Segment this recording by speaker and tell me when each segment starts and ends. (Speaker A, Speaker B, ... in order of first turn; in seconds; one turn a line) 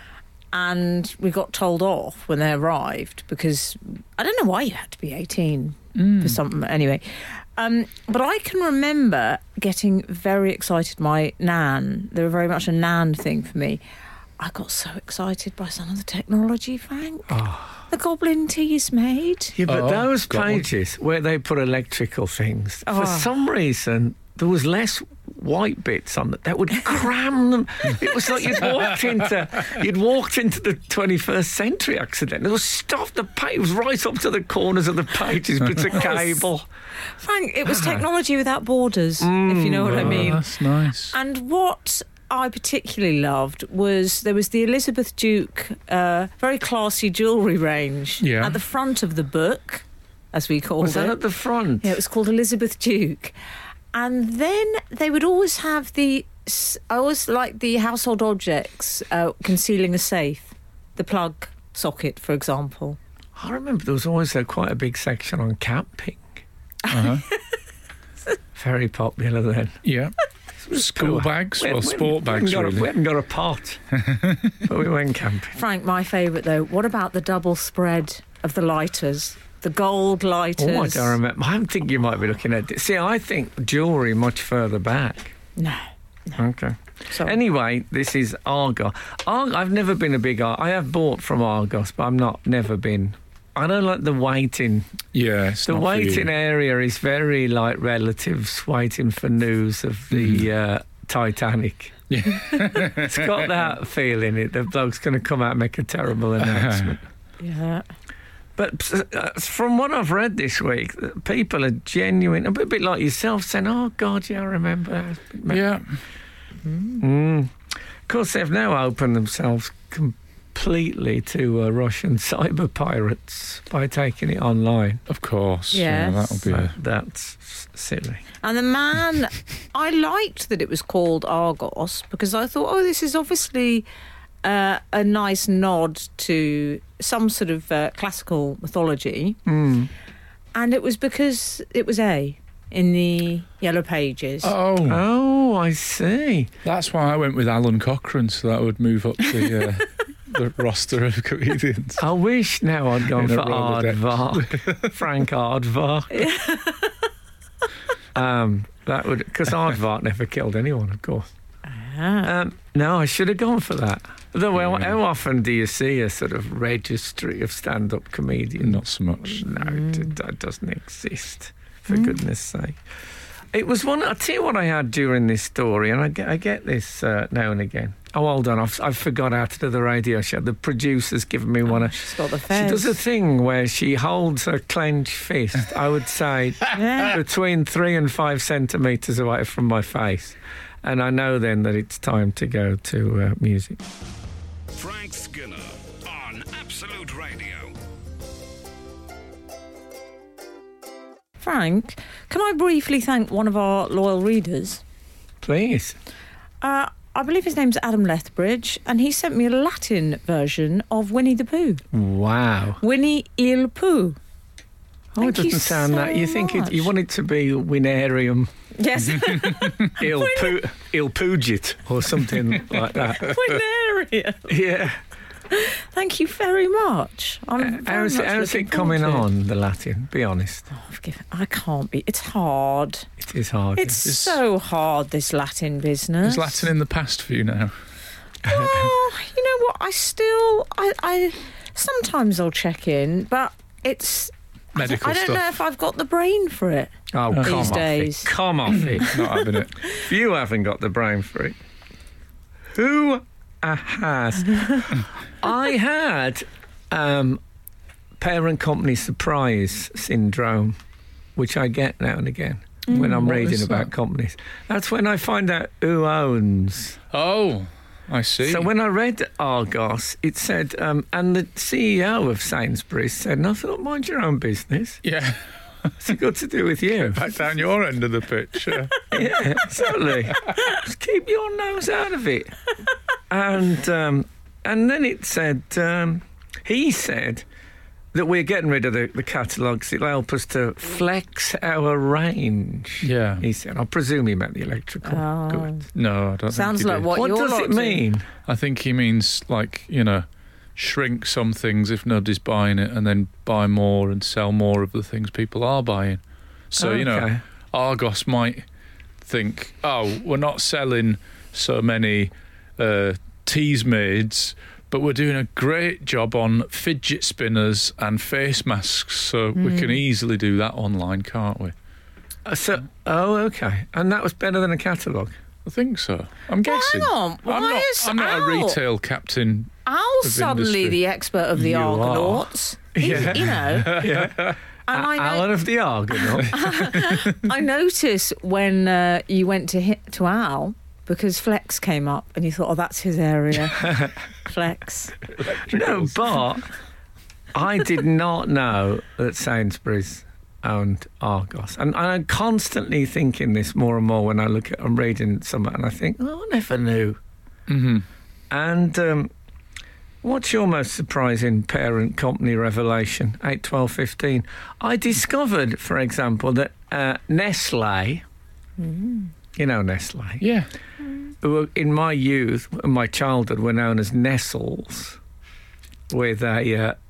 Speaker A: 0.5-13.8
Speaker B: 5.9-6.4
Speaker A: 14.4-19.6
Speaker C: 17.3-17.8
Speaker C: 19.6-36.6
Speaker B: 19.6-20.6
Speaker A: 22.8-23.3
Speaker A: 37.1-40.5
Speaker C: 37.6-38.0
Speaker C: 39.2-40.4
Speaker B: 39.9-41.1
Speaker A: 41.1-51.2
Speaker B: 48.2-48.6
Speaker C: 50.8-51.9
Speaker A: 51.8-53.3
Speaker A: 53.9-63.0
Speaker C: 63.4-66.4
Speaker B: 66.9-67.2
Speaker C: 68.5-69.8
Speaker B: 69.8-70.1
Speaker C: 70.6-73.8
Speaker B: 70.7-72.9
Speaker B: 74.0-74.5
Speaker C: 74.6-75.6
Speaker A: 75.5-81.2
Speaker C: 80.6-85.3
Speaker A: 85.6-86.4
Speaker C: 86.4-94.9
Speaker A: 87.1-87.3
Speaker B: 95.1-96.3
Speaker C: 95.6-107.0
Speaker B: 100.1-100.5
Speaker B: 102.1-103.5
Speaker B: 106.4-106.9
Speaker A: 107.4-107.8
Speaker C: 108.5-115.6
Speaker B: 115.5-115.8
Speaker A: 116.7-117.0
Speaker C: 117.0-125.0
Speaker B: 125.1-126.7
Speaker A: 125.7-126.4
Speaker C: 126.4-128.2
Speaker A: 128.4-133.8
Speaker A: 134.4-139.4
Speaker C: 139.4-139.9
Speaker A: 140.5-144.5
Speaker B: 144.4-145.0
Speaker C: 144.8-146.5
Speaker B: 146.6-152.0
Speaker C: 152.0-156.3
Speaker B: 153.1-154.9
Speaker A: 156.1-156.9
Speaker C: 158.1-161.3
Speaker A: 161.7-162.3
Speaker C: 162.2-172.8
Speaker B: 164.5-164.9
Speaker B: 168.6-169.4
Speaker A: 169.6-170.1
Speaker A: 171.9-172.1
Speaker C: 173.5-193.8
Speaker A: 181.7-183.0
Speaker A: 186.7-187.2
Speaker D: 194.7-197.7
Speaker A: 201.4-204.8
Speaker C: 205.4-205.9
Speaker A: 206.6-211.8
Speaker C: 211.9-212.8
Speaker A: 212.8-214.2
Speaker C: 215.1-218.5
Speaker A: 215.2-216.9
Speaker A: 218.8-220.6
Speaker C: 219.9-223.3
Speaker A: 223.0-224.5
Speaker C: 224.5-225.0
Speaker A: 225.5-229.2
Speaker C: 227.6-230.7
Speaker A: 230.7-233.1
Speaker C: 233.2-234.1
Speaker A: 233.8-236.7
Speaker B: 234.0-234.4
Speaker B: 236.2-237.7
Speaker A: 238.4-246.9
Speaker B: 244.8-245.4
Speaker C: 247.1-249.2
Speaker B: 247.3-248.0
Speaker A: 247.4-248.3
Speaker B: 248.7-249.7
Speaker A: 249.0-249.3
Speaker C: 249.9-251.6
Speaker C: 252.7-257.4
Speaker C: 258.2-260.8
Speaker C: 261.4-267.0
Speaker B: 262.9-263.9
Speaker B: 267.1-268.7
Speaker C: 268.4-275.0
Speaker B: 275.0-275.9
Speaker C: 276.0-277.2
Speaker B: 277.1-279.2
Speaker C: 279.1-282.5
Speaker C: 283.3-287.4
Speaker C: 288.1-295.7
Speaker B: 293.0-293.4
Speaker A: 295.0-295.9
Speaker B: 295.9-297.1
Speaker A: 296.5-298.0
Speaker C: 297.1-298.3
Speaker B: 298.5-308.6
Speaker C: 306.8-307.4
Speaker B: 309.2-321.7
Speaker A: 319.6-320.0
Speaker C: 322.4-325.4
Speaker B: 325.6-331.0
Speaker A: 326.6-328.8
Speaker A: 329.9-334.0
Speaker C: 331.6-336.8
Speaker B: 331.9-332.2
Speaker B: 333.0-334.6
Speaker A: 334.9-335.5
Speaker A: 336.4-345.1
Speaker C: 343.8-344.1
Speaker B: 345.6-346.0
Speaker C: 345.6-346.6
Speaker C: 347.5-357.2
Speaker B: 357.7-358.1
Speaker C: 358.5-359.3
Speaker C: 360.2-368.2
Speaker A: 368.8-369.3
Speaker C: 369.6-370.4
Speaker B: 370.4-370.7
Speaker C: 371.4-375.2
Speaker C: 376.1-377.0